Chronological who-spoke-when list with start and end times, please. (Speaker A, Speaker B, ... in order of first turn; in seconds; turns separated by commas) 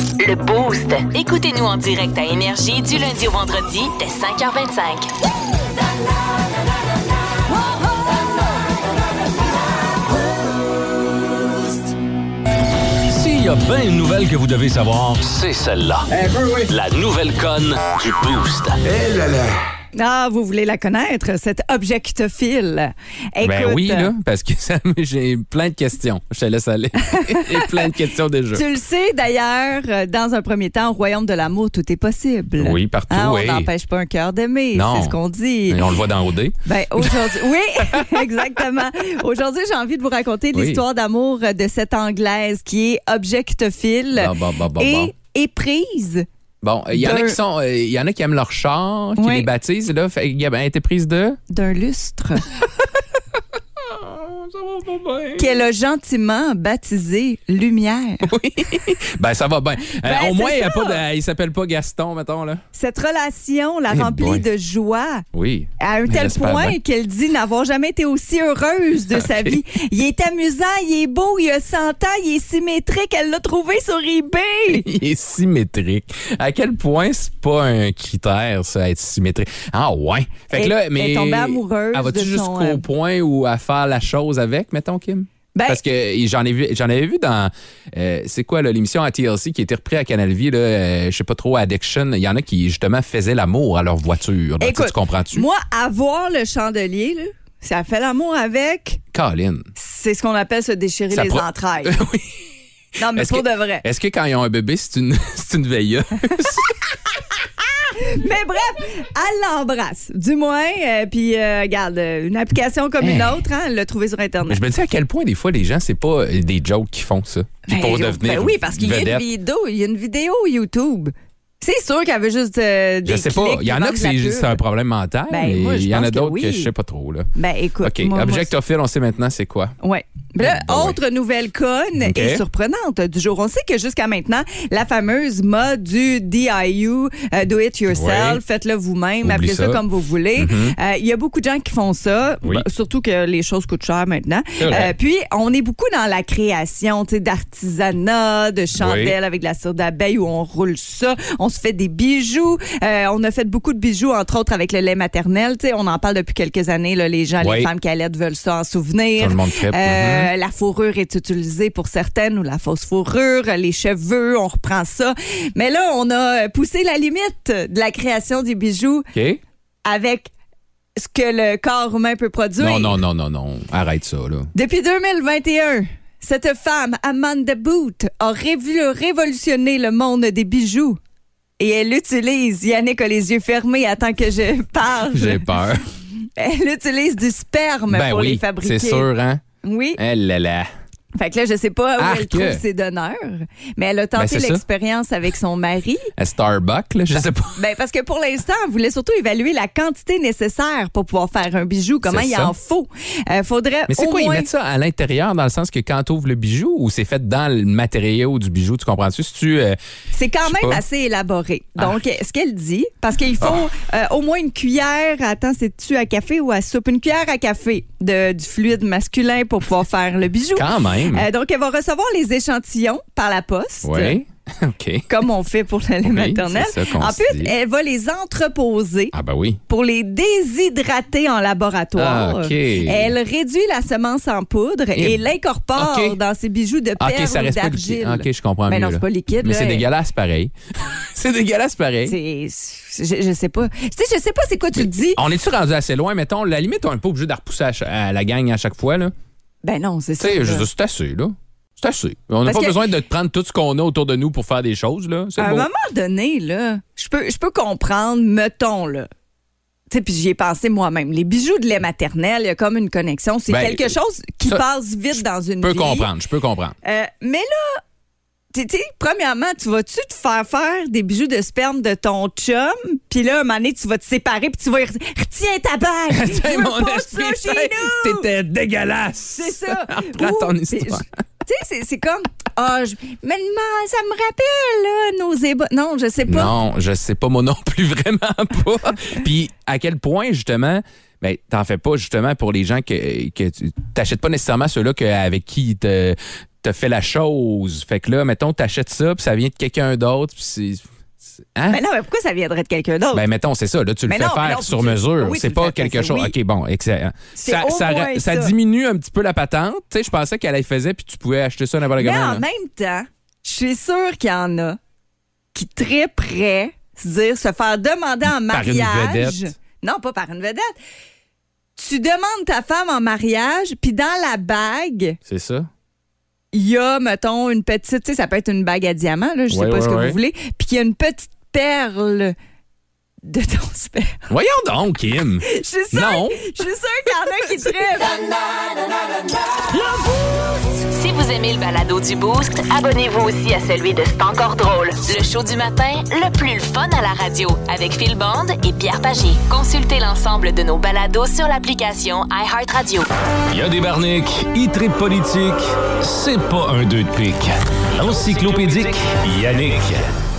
Speaker A: 0.2-5.1, Speaker B: 13.1-19.6, Speaker C: 19.9-24.1, Speaker D: 23.4-28.7, Speaker C: 27.0-27.9, Speaker C: 28.5-35.9, Speaker D: 32.6-33.7, Speaker D: 34.7-35.2, Speaker D: 35.7-38.6, Speaker C: 36.6-46.3, Speaker D: 40.5-40.8, Speaker D: 44.1-45.1, Speaker D: 46.6-51.4, Speaker C: 46.9-47.4, Speaker C: 49.2-49.5, Speaker C: 51.5-52.5, Speaker D: 53.8-55.6, Speaker C: 55.4-58.3, Speaker D: 58.2-62.6, Speaker C: 60.0-61.0, Speaker C: 62.7-65.2, Speaker D: 63.9-64.5, Speaker D: 65.3-66.8, Speaker C: 65.8-74.9, Speaker D: 69.1-69.6, Speaker D: 74.7-95.5, Speaker C: 80.5-82.8, Speaker C: 85.5-85.8, Speaker C: 94.6-99.0, Speaker D: 99.1-99.7, Speaker C: 99.8-102.0, Speaker D: 101.1-102.4, Speaker C: 103.0-103.8, Speaker D: 103.0-107.2, Speaker C: 108.0-114.6, Speaker D: 113.0-113.4, Speaker D: 114.5-119.3, Speaker C: 117.7-124.6, Speaker D: 123.0-127.3, Speaker C: 125.3-126.7, Speaker C: 127.4-128.5, Speaker D: 127.8-129.8, Speaker C: 129.8-169.1, Speaker D: 130.4-131.0, Speaker D: 132.0-132.4, Speaker D: 137.9-138.4, Speaker D: 139.2-139.8, Speaker D: 140.4-140.8, Speaker D: 144.6-144.9, Speaker D: 148.8-149.2, Speaker D: 157.4-157.7, Speaker D: 159.2-160.3, Speaker D: 169.1-169.4, Speaker C: 169.9-170.3, Speaker C: 171.0-173.0, Speaker D: 172.6-174.5, Speaker C: 174.5-181.0, Speaker C: 181.6-185.5, Speaker D: 185.1-185.8, Speaker C: 186.4-189.1, Speaker D: 187.9-189.4, Speaker C: 189.6-190.0, Speaker D: 190.0-190.7, Speaker C: 191.2-196.1, Speaker D: 192.0-192.6, Speaker D: 194.2-194.6, Speaker D: 196.2-197.6, Speaker C: 197.6-204.5, Speaker D: 202.1-202.5, Speaker D: 203.9-209.8, Speaker C: 210.1-224.2, Speaker D: 210.4-210.8, Speaker D: 220.6-221.3, Speaker D: 223.8-225.1, Speaker C: 225.1-229.1, Speaker D: 226.0-227.5, Speaker D: 229.1-229.6, Speaker C: 229.7-239.9, Speaker D: 232.0-233.1, Speaker D: 234.9-235.2, Speaker D: 235.8-236.2, Speaker D: 237.0-242.2, Speaker C: 242.0-245.2, Speaker D: 244.8-249.1, Speaker C: 249.6-250.7, Speaker D: 250.2-255.7, Speaker C: 252.4-252.8, Speaker C: 255.4-259.1, Speaker C: 259.9-266.1, Speaker D: 263.5-263.9, Speaker D: 265.1-266.8, Speaker C: 266.8-267.8, Speaker C: 268.5-278.3, Speaker D: 276.1-281.1, Speaker C: 279.3-286.5, Speaker D: 286.3-300.8, Speaker D: 301.6-301.8, Speaker C: 301.7-303.2, Speaker D: 303.1-312.4, Speaker C: 304.1-306.3, Speaker C: 307.4-308.5, Speaker C: 312.0-314.8, Speaker C: 315.5-320.7, Speaker D: 318.5-319.5, Speaker C: 321.8-325.2, Speaker D: 325.3-325.7, Speaker C: 326.5-332.3, Speaker D: 329.5-330.2, Speaker C: 333.2-334.2, Speaker D: 334.3-336.5, Speaker C: 335.4-338.2, Speaker A: 340.7-353.1, Speaker B: 353.5-360.1